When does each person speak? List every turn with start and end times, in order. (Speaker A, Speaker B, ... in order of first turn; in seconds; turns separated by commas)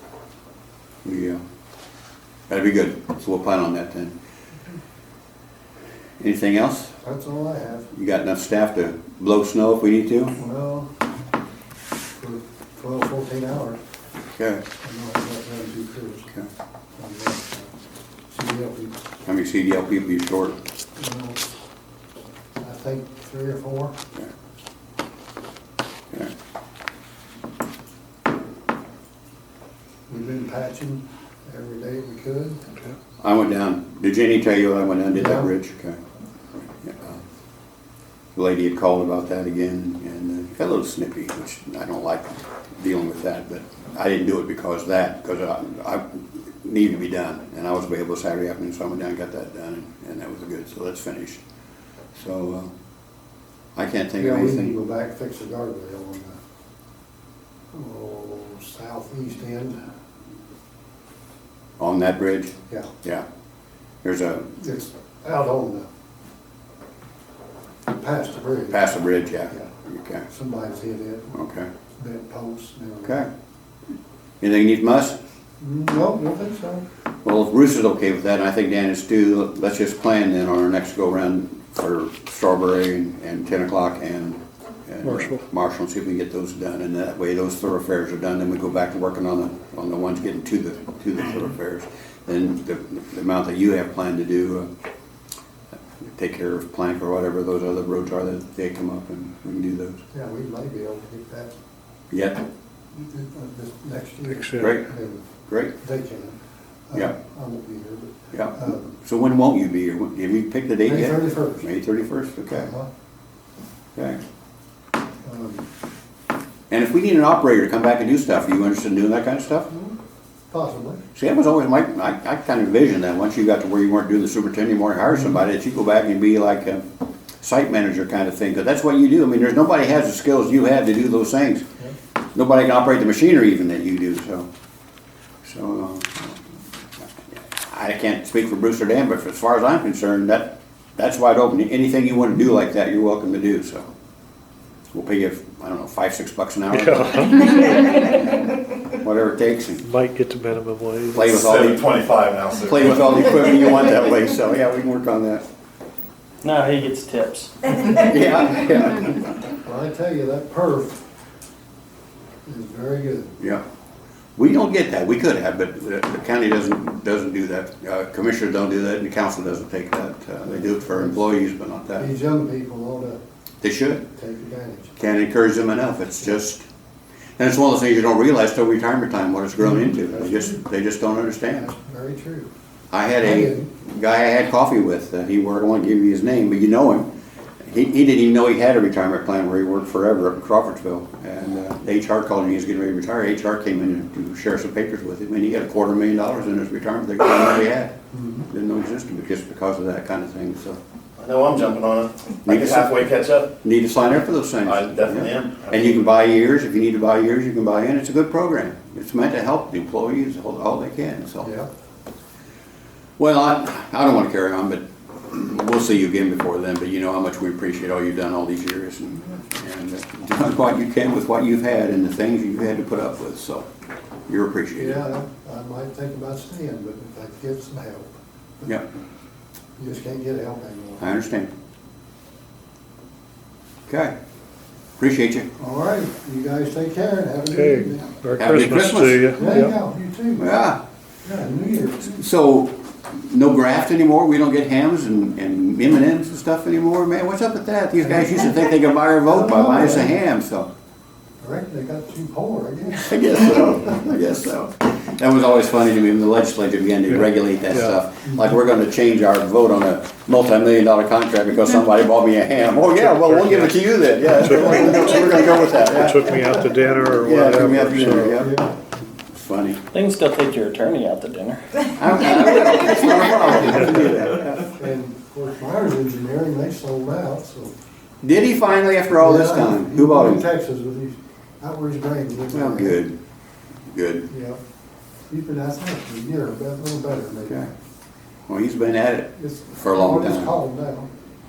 Speaker A: 1.0-1.4, Speaker A: 2.5-4.2, Speaker A: 6.2-7.0, Speaker B: 7.0-7.9, Speaker A: 7.9-10.4, Speaker B: 10.4-10.9, Speaker B: 12.2-13.8, Speaker A: 14.4-14.6, Speaker B: 14.8-16.3, Speaker B: 17.0-17.7, Speaker B: 18.3-19.0, Speaker A: 19.2-20.6, Speaker B: 21.0-21.4, Speaker B: 22.6-23.9, Speaker B: 30.1-32.6, Speaker A: 33.2-36.0, Speaker B: 35.1-35.5, Speaker A: 36.8-37.2, Speaker A: 38.3-51.4, Speaker A: 52.1-52.7, Speaker A: 53.7-54.7, Speaker B: 54.2-56.4, Speaker B: 57.7-59.8, Speaker A: 61.8-63.2, Speaker A: 64.0-64.6, Speaker B: 64.6-65.9, Speaker B: 67.9-68.8, Speaker A: 68.7-70.3, Speaker B: 70.3-71.3, Speaker A: 71.3-71.7, Speaker B: 72.0-73.2, Speaker A: 73.0-73.3, Speaker A: 74.4-75.2, Speaker B: 75.6-76.8, Speaker A: 77.2-94.7, Speaker C: 85.0-85.4, Speaker A: 96.0-100.0, Speaker B: 100.1-101.5, Speaker A: 102.1-102.5, Speaker B: 102.9-105.3, Speaker C: 104.3-104.8, Speaker A: 104.6-104.9, Speaker A: 105.5-105.8, Speaker B: 105.8-106.4, Speaker B: 106.9-108.9, Speaker A: 108.3-112.7, Speaker B: 110.8-111.6, Speaker B: 112.5-112.9, Speaker A: 114.0-114.2, Speaker B: 115.2-115.7, Speaker A: 116.7-119.7, Speaker B: 119.7-120.0, Speaker B: 120.5-121.0, Speaker A: 121.2-126.8, Speaker A: 127.4-131.6, Speaker A: 132.3-134.5, Speaker A: 135.4-136.4, Speaker A: 137.0-143.9, Speaker A: 144.9-149.8, Speaker C: 146.7-148.0, Speaker C: 149.8-151.4, Speaker A: 151.1-151.8, Speaker D: 151.3-153.2, Speaker A: 152.6-155.4, Speaker E: 156.4-157.7, Speaker A: 157.8-159.3, Speaker B: 159.6-161.0, Speaker B: 162.4-163.3, Speaker A: 164.4-172.1, Speaker B: 170.6-171.2, Speaker B: 171.9-173.2, Speaker A: 173.6-174.1, Speaker B: 174.1-174.9, Speaker A: 175.0-176.7, Speaker A: 177.4-181.7, Speaker B: 179.6-180.6, Speaker B: 181.5-182.5, Speaker A: 182.9-187.1, Speaker B: 183.2-183.7, Speaker A: 187.6-197.9, Speaker B: 198.1-198.5, Speaker A: 198.5-200.8, Speaker D: 201.2-203.5, Speaker A: 202.4-203.0, Speaker A: 203.6-211.5, Speaker D: 204.6-206.0, Speaker B: 211.4-211.7, Speaker A: 213.2-223.7, Speaker A: 224.3-225.0, Speaker B: 224.8-228.8, Speaker B: 229.8-231.1, Speaker A: 231.0-231.5, Speaker A: 233.9-234.1, Speaker A: 235.0-235.5, Speaker B: 235.6-238.2, Speaker C: 237.5-239.8, Speaker A: 238.4-239.5, Speaker B: 239.3-240.5, Speaker A: 240.4-240.8, Speaker B: 241.2-242.2, Speaker A: 242.1-250.7, Speaker B: 248.0-248.4, Speaker B: 249.2-250.2, Speaker B: 251.4-253.9, Speaker A: 253.0-268.6, Speaker C: 257.1-258.0, Speaker C: 262.9-268.4, Speaker B: 268.4-268.8, Speaker A: 269.3-269.8, Speaker E: 269.9-271.6, Speaker A: 271.9-274.8, Speaker C: 273.6-274.1, Speaker B: 274.7-277.7, Speaker A: 278.2-280.4, Speaker B: 279.1-283.0, Speaker A: 282.5-283.2, Speaker A: 283.9-284.3, Speaker B: 284.3-284.6, Speaker B: 285.3-287.7, Speaker A: 288.5-290.5, Speaker B: 289.4-291.1